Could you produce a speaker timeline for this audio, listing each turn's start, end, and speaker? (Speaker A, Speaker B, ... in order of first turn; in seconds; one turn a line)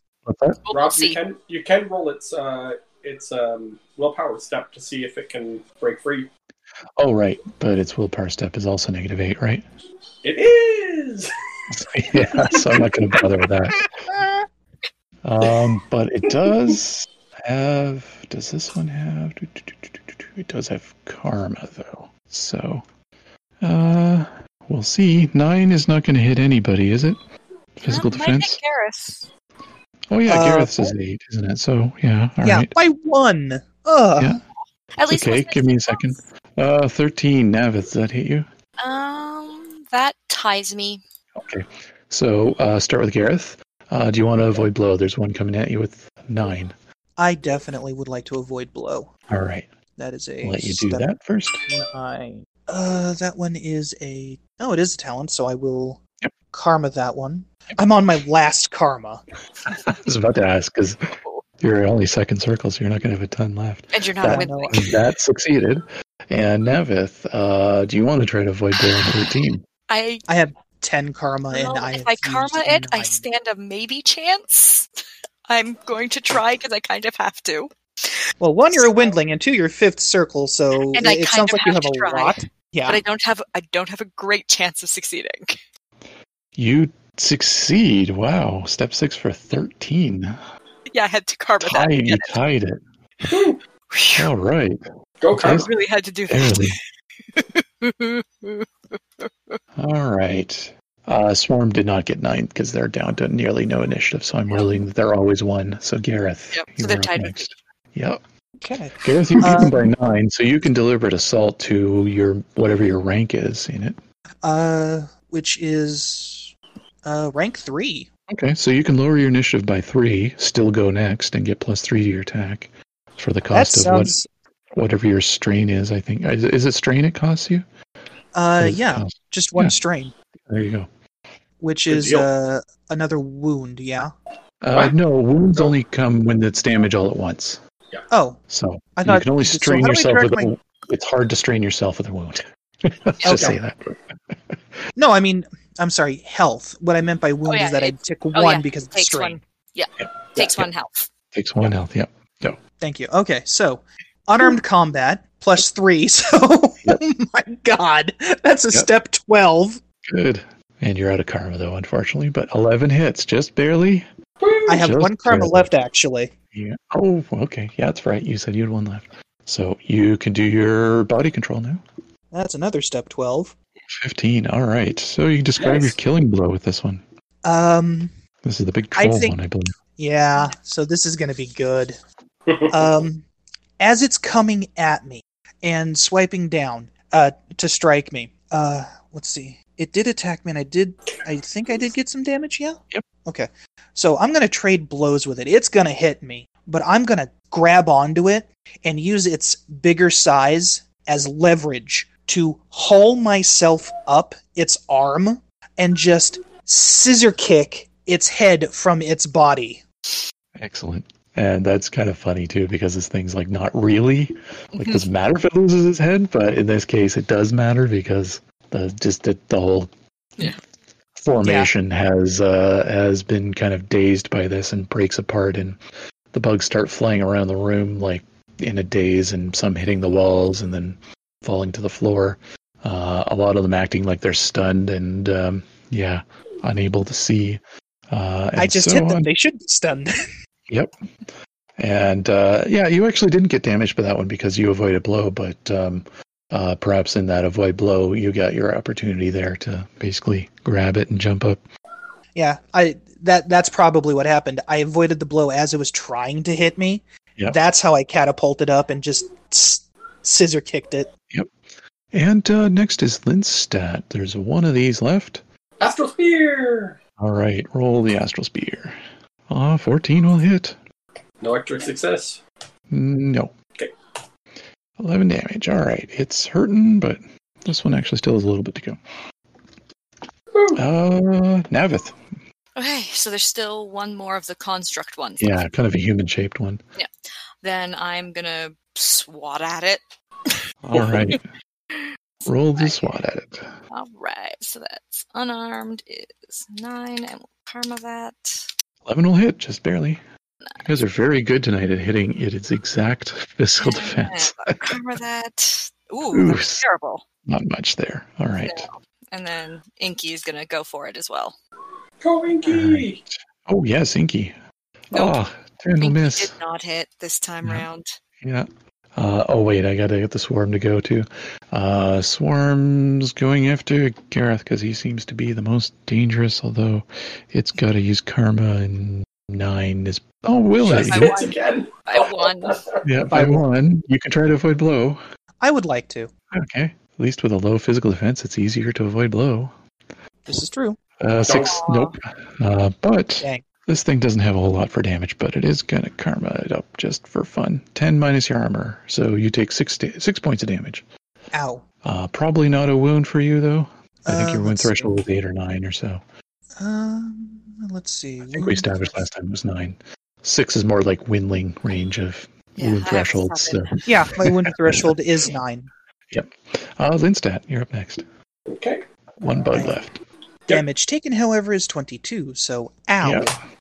Speaker A: 0.2-0.6
Speaker B: 0.7-1.2
Speaker C: 0.7-6.3
Speaker A: 7.0-9.7
Speaker C: 10.2-11.3
Speaker A: 11.7-13.8
Speaker C: 12.2-12.9
Speaker A: 15.2-22.9
Speaker A: 23.6-27.2
Speaker A: 27.8-28.6
Speaker B: 27.9-29.3
Speaker A: 30.1-32.7
Speaker D: 30.3-30.9
Speaker D: 32.4-34.4
Speaker B: 35.0-36.2
Speaker A: 35.1-38.5
Speaker B: 38.8-41.0
Speaker A: 41.4-46.8
Speaker D: 47.2-49.1
Speaker A: 49.3-49.7
Speaker D: 50.0-51.1
Speaker A: 50.4-51.6
Speaker D: 51.7-56.0
Speaker D: 56.5-59.2
Speaker A: 59.7-61.0
Speaker A: 61.6-69.7
Speaker B: 63.9-64.9
Speaker D: 64.2-64.9
Speaker B: 69.9-70.2
Speaker D: 70.3-73.2
Speaker B: 71.5-74.9
Speaker B: 75.5-79.0
Speaker D: 78.4-83.0
Speaker B: 80.9-85.6
Speaker A: 86.5-90.4
Speaker B: 90.9-92.4
Speaker A: 91.6-92.8
Speaker C: 93.3-93.6
Speaker B: 93.9-94.3
Speaker A: 94.2-94.8
Speaker C: 95.2-95.7
Speaker A: 95.3-95.7
Speaker B: 95.5-96.8
Speaker A: 96.3-96.8
Speaker B: 97.3-99.6
Speaker A: 99.8-108.2
Speaker B: 106.5-107.5
Speaker D: 108.6-109.9
Speaker A: 109.0-114.0
Speaker D: 114.4-116.5
Speaker D: 117.0-118.1
Speaker A: 118.3-124.2
Speaker D: 123.5-124.3
Speaker A: 124.7-127.7
Speaker D: 128.3-130.1
Speaker A: 128.6-129.8
Speaker A: 130.5-130.9
Speaker D: 131.6-134.1
Speaker C: 131.9-132.3
Speaker A: 134.6-137.6
Speaker D: 138.1-138.4
Speaker A: 138.5-144.6
Speaker D: 139.0-140.5
Speaker D: 143.2-143.6
Speaker C: 143.2-143.6
Speaker D: 145.0-149.4
Speaker B: 147.5-151.1
Speaker A: 150.0-150.7
Speaker A: 151.3-152.6
Speaker D: 152.8-159.8
Speaker A: 160.1-164.1
Speaker C: 164.4-164.8
Speaker D: 164.7-166.3
Speaker A: 164.7-165.7
Speaker A: 166.5-171.8
Speaker D: 172.3-173.6
Speaker A: 173.9-177.0
Speaker C: 175.6-176.0
Speaker D: 177.4-178.1
Speaker A: 178.4-179.7
Speaker D: 179.0-179.4
Speaker D: 180.0-182.0
Speaker C: 182.5-183.0
Speaker D: 182.7-183.2
Speaker D: 183.8-209.8
Speaker A: 210.6-220.6
Speaker B: 214.8-215.0
Speaker A: 221.2-225.8
Speaker D: 221.4-221.7
Speaker A: 226.3-239.3
Speaker D: 238.6-240.2
Speaker A: 240.7-240.9
Speaker A: 241.8-251.6
Speaker D: 252.3-261.1
Speaker A: 262.1-265.4
Speaker C: 265.8-267.0
Speaker A: 267.2-269.0
Speaker A: 269.5-270.8
Speaker C: 271.4-272.4
Speaker A: 272.9-273.5
Speaker A: 275.0-279.0
Speaker C: 280.5-280.8
Speaker A: 280.8-282.2
Speaker B: 282.8-285.6
Speaker A: 285.4-286.8
Speaker B: 287.6-291.4
Speaker A: 290.8-291.4
Speaker A: 292.4-293.7
Speaker B: 292.8-293.1
Speaker B: 293.9-298.7
Speaker A: 299.1-300.2
Speaker A: 300.8-305.0
Speaker B: 303.8-307.2
Speaker A: 306.3-306.8
Speaker A: 307.5-308.9
Speaker B: 308.6-311.6
Speaker C: 312.2-313.2
Speaker A: 312.6-314.6
Speaker A: 315.1-316.5
Speaker B: 316.0-318.2
Speaker A: 318.4-331.4
Speaker C: 330.8-333.0
Speaker B: 330.9-332.8
Speaker A: 333.0-335.2
Speaker D: 333.3-333.6
Speaker D: 335.6-336.3
Speaker A: 336.5-339.7
Speaker D: 340.5-341.0
Speaker A: 341.2-351.1
Speaker C: 341.4-341.8
Speaker B: 341.6-342.1
Speaker D: 351.5-351.8
Speaker A: 352.0-356.2
Speaker D: 354.3-355.2
Speaker D: 356.8-359.2
Speaker A: 358.5-365.1
Speaker B: 362.8-363.9
Speaker D: 364.1-365.9
Speaker A: 366.3-368.2
Speaker C: 368.7-369.0
Speaker A: 369.4-370.2
Speaker D: 369.7-370.0
Speaker D: 370.7-373.6
Speaker A: 373.2-373.6